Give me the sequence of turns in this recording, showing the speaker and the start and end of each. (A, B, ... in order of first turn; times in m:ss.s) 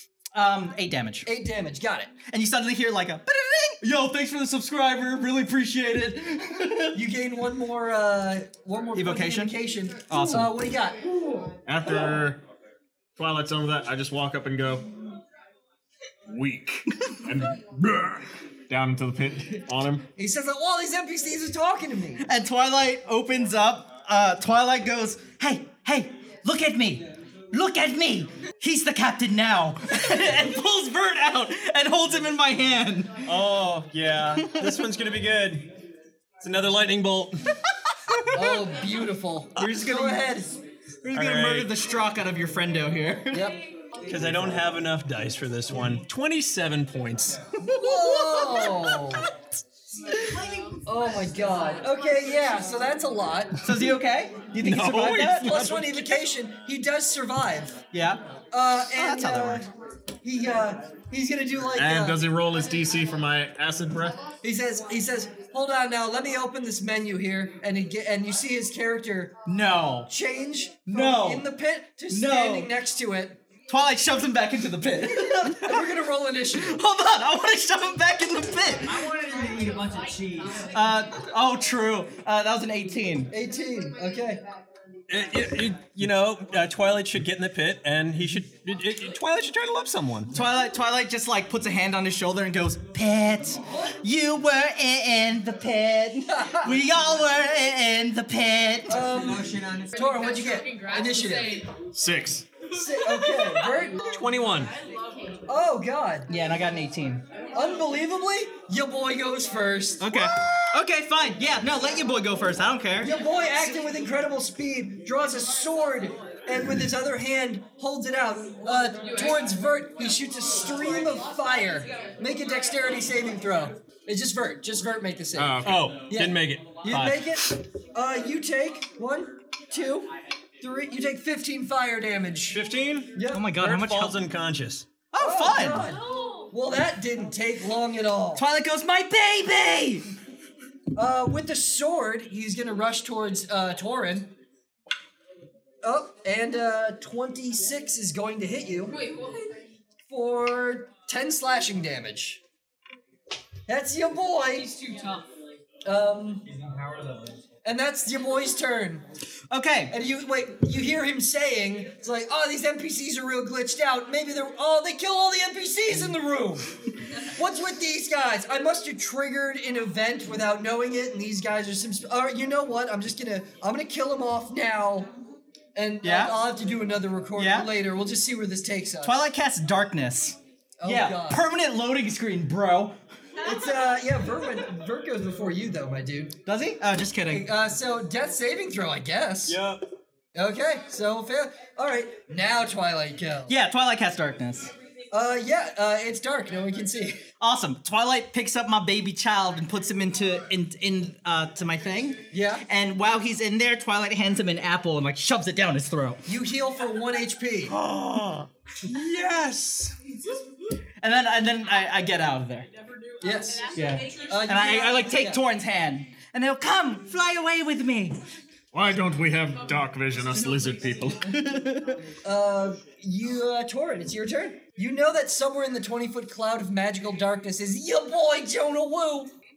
0:00.3-0:01.3 A
0:01.2-0:02.1 B
0:02.3-0:07.0 A
0:06.9-0:11.1 B
0:08.9-0:09.5 A
0:10.1-0:10.5 A
0:11.6-0:12.4 C
0:13.2-0:14.9 C
0:16.3-0:20.1 C
0:20.2-0:22.2 B
0:22.2-0:33.3 A
0:33.2-0:35.7 D
0:34.4-0:34.7 A
0:36.4-0:37.5 D
0:38.1-0:38.7 D
0:38.3-0:40.6 B
0:39.6-0:40.3 A
0:41.0-0:43.5 A
0:41.1-0:41.7 D
0:43.3-0:43.6 B
0:44.0-0:47.4 D
0:47.6-0:49.3 B
0:47.7-0:49.1 A
0:50.1-0:50.4 A
0:50.8-0:53.6 B
0:53.6-0:55.6 A
0:54.6-0:56.1 D
0:55.2-0:57.8 B
0:57.9-0:58.2 A
0:58.5-0:59.7 B
0:58.9-0:59.7 A
1:00.2-1:02.2 B
1:01.7-1:04.2 C
1:04.4-1:09.4 B
1:09.4-1:10.1 A
1:10.1-1:13.4 B
1:10.9-1:11.5 A
1:12.1-1:12.7 A
1:13.7-1:15.9 A
1:15.3-1:16.8 B
1:16.5-1:19.1 A
1:19.2-1:20.7 E
1:20.7-1:23.3 A
1:23.3-1:24.4 B
1:25.1-1:30.3 D
1:30.3-1:39.0 A
1:36.4-1:36.7 B
1:38.9-1:41.6 B
1:39.4-1:39.9 D
1:39.9-1:41.7 F
1:41.9-1:42.5 C
1:42.7-1:44.0 B
1:44.0-1:44.7 D
1:44.5-1:45.4 E
1:45.5-1:46.3 B
1:46.3-1:47.2 A
1:47.5-1:50.3 B
1:50.0-1:53.2 A
1:53.0-2:10.1 B
1:59.1-1:59.6 F
2:05.3-2:05.9 C
2:05.6-2:07.4 D
2:10.6-2:12.6 B
2:12.5-2:14.8 D
2:13.2-2:13.4 B
2:13.3-2:14.2 A
2:15.1-2:15.9 A
2:15.2-2:18.4 B
2:15.8-2:16.5 E
2:18.3-2:20.0 A
2:20.9-2:24.3 B
2:25.8-2:29.0 B
2:28.8-2:29.5 F
2:30.1-2:32.4 B
2:33.7-2:34.7 B
2:34.5-2:35.2 F
2:35.8-2:36.5 B
2:36.7-2:37.2 D
2:37.6-2:39.0 B
2:39.5-2:40.0 A
2:39.9-2:46.7 B
2:47.2-2:55.2 B
2:55.7-2:59.2 B
2:56.0-2:56.4 A
2:57.4-2:57.7 A
2:59.0-3:03.0 A
3:00.8-3:01.4 B
3:03.4-3:06.4 B
3:06.4-3:07.5 A
3:07.3-3:09.6 B
3:09.5-3:09.8 D
3:10.3-3:13.5 B
3:13.5-3:14.7 A
3:15.1-3:17.2 B
3:17.4-3:26.3 A
3:22.3-3:22.6 B
3:26.3-3:27.7 B
3:27.7-3:28.5 A
3:28.8-3:29.9 B
3:29.3-3:29.8 A
3:31.0-3:32.7 A
3:32.7-3:34.4 F
3:33.2-3:35.4 B
3:33.4-3:35.0 E
3:33.7-3:38.2 A
3:38.7-3:41.3 C
3:39.8-3:41.2 F
3:41.2-3:42.0 A
3:42.2-3:49.3 B